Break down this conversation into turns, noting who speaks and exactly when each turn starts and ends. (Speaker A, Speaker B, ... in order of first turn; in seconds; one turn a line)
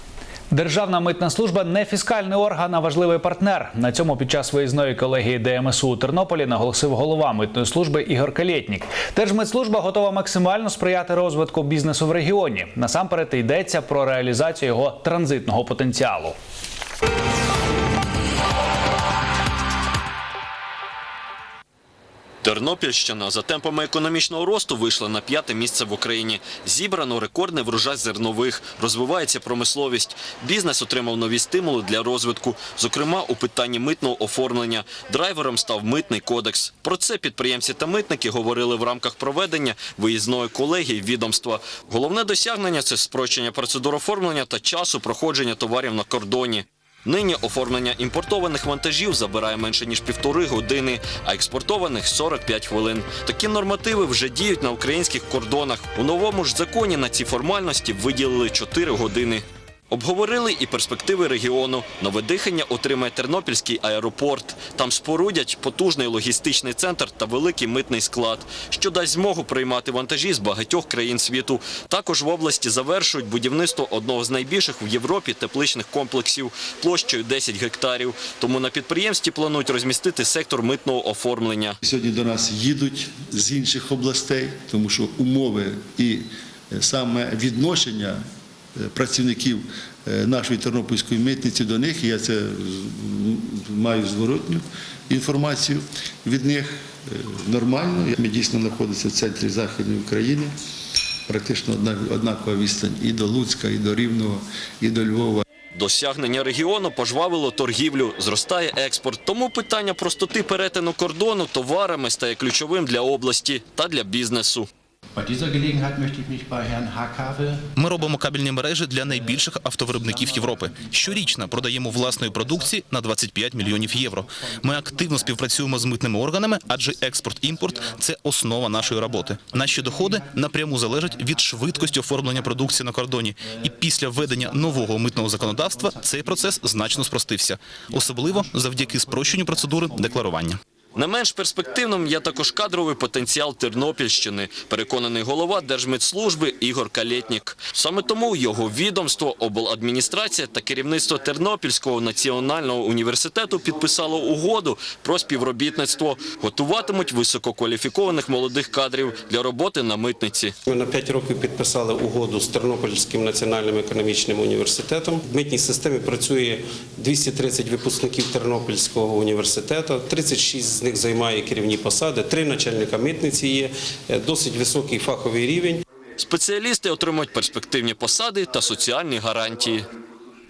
Speaker A: 0.5-16.3
Speaker B: 22.4-81.7
Speaker C: 81.8-88.2
Speaker C: 88.8-100.5
Speaker C: 101.3-105.4
Speaker B: 105.7-114.7
Speaker C: 115.3-117.3
Speaker D: 117.8-140.6
Speaker B: 140.9-160.5
Speaker E: 160.7-175.8
Speaker B: 176.2-179.8